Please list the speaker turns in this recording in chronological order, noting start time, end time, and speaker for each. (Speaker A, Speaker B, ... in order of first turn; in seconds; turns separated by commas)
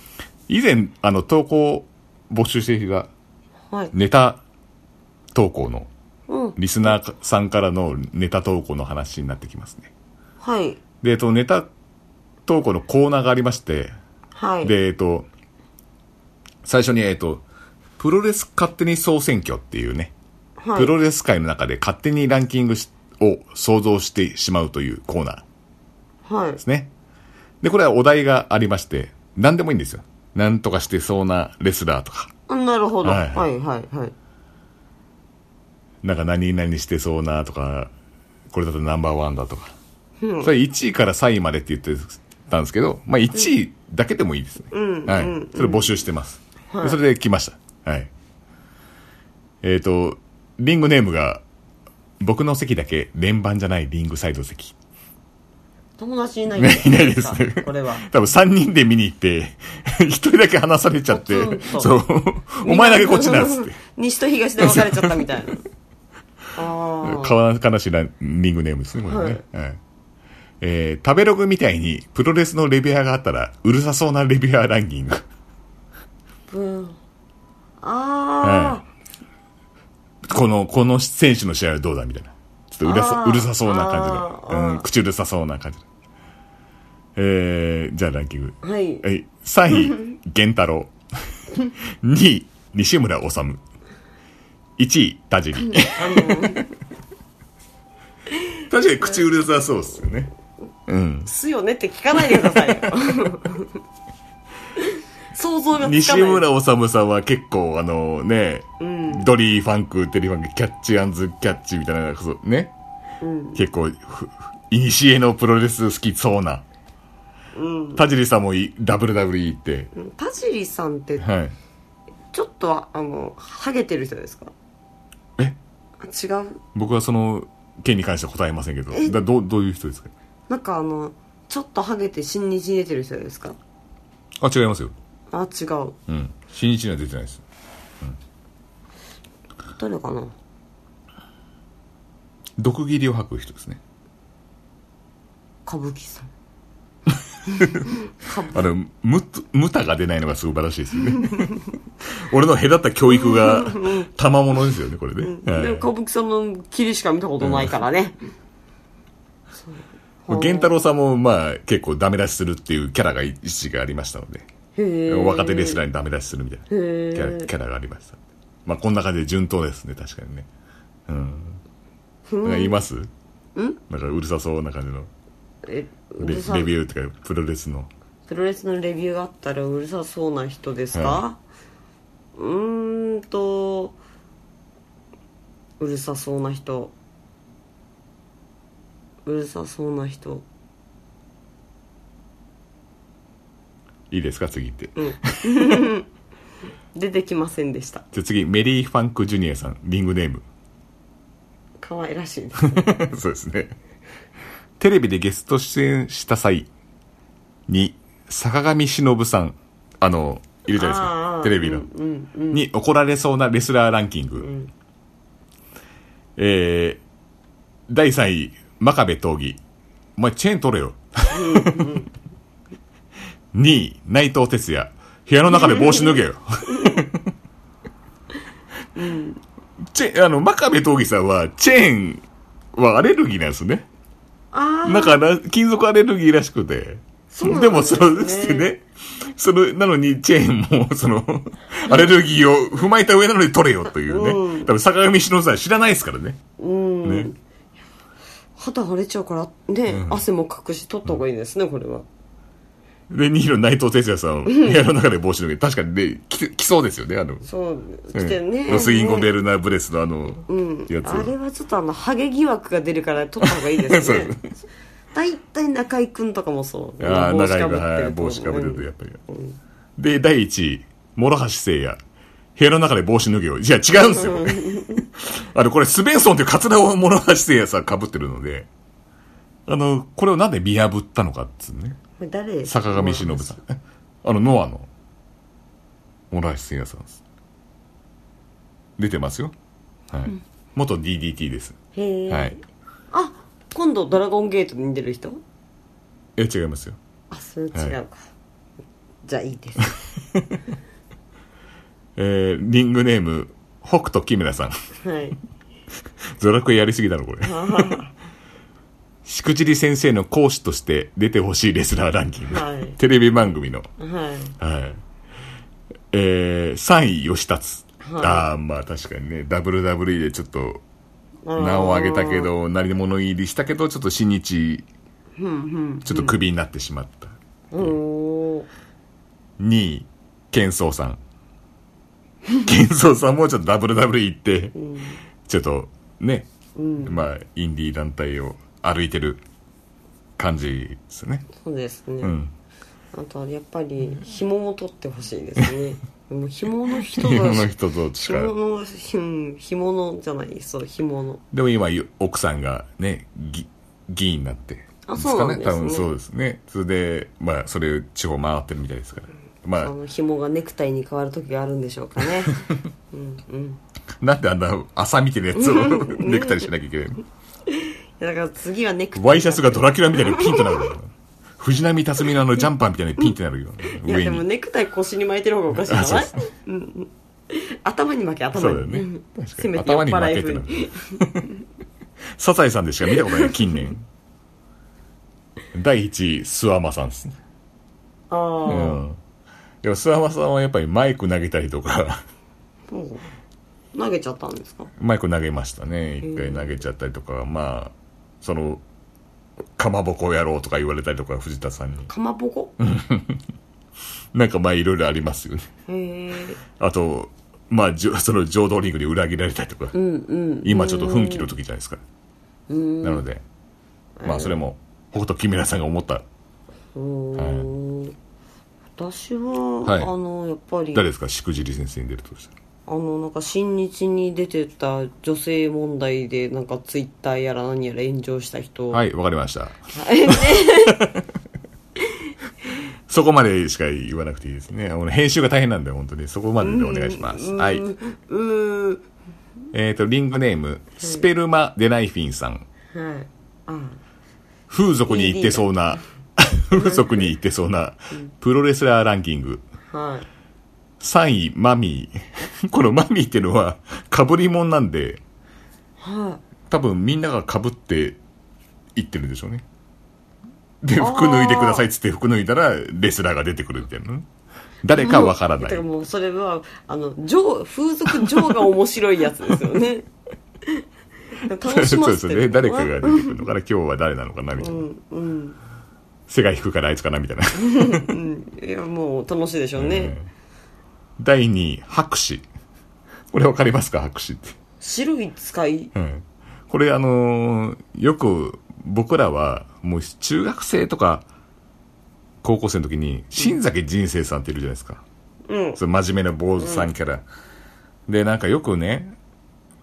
Speaker A: 0.5-3.1, Speaker A: 3.9-4.4, Speaker A: 5.3-5.9, Speaker B: 6.3-6.6, Speaker A: 6.6-9.9, Speaker B: 10.4-10.8, Speaker A: 11.0-11.7, Speaker A: 12.5-13.9, Speaker B: 14.4-14.7, Speaker A: 14.6-15.3, Speaker A: 16.6-17.4, Speaker A: 18.0-20.1, Speaker B: 20.6-20.9, Speaker A: 20.8-25.4, Speaker B: 26.2-26.6, Speaker A: 26.6-26.9, Speaker A: 27.6-32.3, Speaker B: 32.5-34.1, Speaker A: 33.0-33.5, Speaker A: 36.0-37.9, Speaker A: 38.5-39.7, Speaker B: 40.2-40.5, Speaker A: 40.4-48.1, Speaker B: 44.7-45.9, Speaker B: 46.7-47.0, Speaker A: 49.6-51.4, Speaker A: 52.2-54.8, Speaker B: 56.0-58.1, Speaker A: 56.6-63.8, Speaker B: 61.1-61.9, Speaker B: 62.6-65.6, Speaker A: 64.6-65.2, Speaker B: 66.6-67.4, Speaker A: 67.0-69.8, Speaker B: 69.1-69.4, Speaker A: 70.6-75.2, Speaker B: 76.5-77.0, Speaker B: 77.8-78.9, Speaker A: 78.4-78.8, Speaker A: 80.3-85.8, Speaker B: 82.8-84.9, Speaker A: 87.2-90.9, Speaker B: 88.6-89.0, Speaker A: 92.0-93.6, Speaker A: 94.8-96.6, Speaker B: 95.9-96.7, Speaker A: 98.7-100.3, Speaker A: 100.9-101.3, Speaker B: 101.3-103.8, Speaker B: 104.8-106.5, Speaker A: 105.8-112.7, Speaker B: 108.8-109.3, Speaker B: 113.2-113.6, Speaker A: 113.6-116.7, Speaker B: 117.5-118.0, Speaker A: 118.0-119.9, Speaker B: 120.0-121.2, Speaker A: 121.2-121.5, Speaker B: 122.3-124.5, Speaker B: 126.0-126.6, Speaker A: 126.7-130.1, Speaker B: 130.5-133.6, Speaker A: 134.4-134.9, Speaker B: 135.3-136.0, Speaker A: 136.1-137.4, Speaker B: 139.8-140.3, Speaker A: 142.6-143.8, Speaker B: 145.7-146.3, Speaker B: 147.9-148.7, Speaker A: 148.5-155.9, Speaker B: 153.1-154.1, Speaker B: 155.2-158.2, Speaker A: 157.4-157.7, Speaker B: 159.6-160.7, Speaker A: 160.3-164.5, Speaker B: 164.8-165.8, Speaker A: 165.1-170.5, Speaker B: 166.7-167.5, Speaker A: 171.1-171.6, Speaker B: 172.3-172.8, Speaker A: 172.4-173.1, Speaker A: 173.9-175.1, Speaker B: 175.7-176.7, Speaker A: 176.2-177.9, Speaker B: 178.3-181.4, Speaker A: 180.9-181.2, Speaker B: 182.4-184.0, Speaker B: 185.8-186.9, Speaker B: 189.2-190.4, Speaker A: 194.1-195.8, Speaker B: 195.0-196.1, Speaker B: 196.9-198.1, Speaker A: 198.1-200.4, Speaker B: 201.8-203.0, Speaker A: 202.6-203.8, Speaker A: 204.8-206.7, Speaker A: 207.7-211.9, Speaker B: 210.8-212.7, Speaker A: 212.5-214.5, Speaker B: 214.4-214.7, Speaker A: 216.4-217.0, Speaker A: 217.9-219.6, Speaker A: 220.2-222.0, Speaker B: 221.3-222.1, Speaker A: 223.5-227.3, Speaker B: 225.5-226.2, Speaker B: 226.7-227.0, Speaker B: 228.9-229.4, Speaker A: 229.9-233.9, Speaker B: 234.5-235.3, Speaker A: 234.8-246.4, Speaker B: 237.3-238.7, Speaker B: 244.0-244.7, Speaker B: 246.6-247.4, Speaker A: 247.1-247.3, Speaker B: 248.6-252.1, Speaker A: 249.9-250.2, Speaker A: 253.1-257.5, Speaker B: 254.5-254.8, Speaker B: 257.5-259.3, Speaker A: 258.1-261.3, Speaker B: 260.5-264.4, Speaker A: 263.4-264.4, Speaker B: 265.1-269.6, Speaker A: 267.0-269.2, Speaker A: 270.0-272.0, Speaker A: 272.6-278.7, Speaker B: 273.9-275.0, Speaker A: 279.7-282.0, Speaker B: 282.2-283.5, Speaker A: 282.7-284.9, Speaker A: 286.3-287.2, Speaker A: 289.0-289.5, Speaker A: 290.1-291.8, Speaker B: 291.9-292.6, Speaker A: 292.3-292.6, Speaker B: 293.1-295.4, Speaker A: 296.4-297.0, Speaker B: 297.3-298.2, Speaker B: 299.2-299.9, Speaker A: 302.2-304.7, Speaker B: 305.0-305.4, Speaker A: 306.4-308.0, Speaker B: 307.4-308.1, Speaker A: 309.2-313.9, Speaker B: 312.5-313.0, Speaker B: 314.0-314.6, Speaker A: 314.6-315.0, Speaker A: 316.1-320.8, Speaker B: 318.0-318.5, Speaker B: 321.4-322.5, Speaker A: 321.6-324.9, Speaker B: 325.4-326.4, Speaker A: 326.1-328.0, Speaker B: 327.7-328.7, Speaker A: 329.6-331.2, Speaker A: 332.6-334.8, Speaker B: 334.8-335.2, Speaker A: 335.4-336.5, Speaker B: 336.8-337.2, Speaker A: 337.0-339.4, Speaker A: 340.4-341.5, Speaker B: 341.6-342.3, Speaker A: 342.2-342.5, Speaker B: 343.1-351.4, Speaker A: 347.0-348.5, Speaker A: 351.5-359.9, Speaker B: 355.1-356.1, Speaker B: 359.8-362.6, Speaker B: 363.1-363.8, Speaker A: 364.2-367.2, Speaker B: 365.6-366.7, Speaker B: 367.7-370.9, Speaker A: 369.2-374.4, Speaker B: 373.9-381.1, Speaker A: 375.9-376.4, Speaker A: 378.5-381.5, Speaker A: 382.4-384.1, Speaker A: 385.7-387.4, Speaker B: 388.3-389.1, Speaker A: 388.7-389.2, Speaker A: 389.8-392.2, Speaker B: 392.9-393.2, Speaker B: 393.9-394.9, Speaker A: 395.0-398.8, Speaker B: 396.2-396.8, Speaker A: 399.8-402.1, Speaker B: 402.1-402.8, Speaker A: 402.8-403.4, Speaker A: 404.3-405.7, Speaker B: 405.9-406.6, Speaker A: 406.8-410.0, Speaker B: 409.9-411.5, Speaker A: 410.6-412.0, Speaker B: 412.7-413.2, Speaker A: 413.0-413.4, Speaker B: 414.2-414.6, Speaker A: 414.2-416.2, Speaker B: 416.9-418.1, Speaker A: 417.4-417.7, Speaker B: 419.0-421.1, Speaker A: 419.9-420.1, Speaker A: 420.9-422.5, Speaker B: 422.9-429.0, Speaker A: 428.9-431.1, Speaker B: 429.9-431.0, Speaker A: 433.1-437.8, Speaker B: 436.6-439.1, Speaker A: 439.7-442.6, Speaker B: 442.9-444.0, Speaker A: 444.7-449.6, Speaker B: 445.1-445.7, Speaker B: 446.8-447.2, Speaker B: 449.9-450.3, Speaker A: 451.0-455.2, Speaker B: 456.0-456.4, Speaker A: 456.7-458.2, Speaker A: 459.0-459.6, Speaker A: 460.8-464.3, Speaker B: 461.0-461.9, Speaker A: 464.8-465.9, Speaker B: 464.9-470.1, Speaker A: 468.1-468.5, Speaker B: 471.4-473.4, Speaker A: 471.7-474.9, Speaker B: 474.6-475.6, Speaker A: 476.3-478.2, Speaker B: 477.6-480.2, Speaker A: 479.8-480.3, Speaker A: 481.2-482.5, Speaker A: 483.3-484.6, Speaker B: 484.8-485.9, Speaker A: 485.9-491.2, Speaker A: 492.4-495.0, Speaker B: 495.5-495.8, Speaker A: 495.8-497.2, Speaker B: 496.6-496.9, Speaker A: 498.1-499.2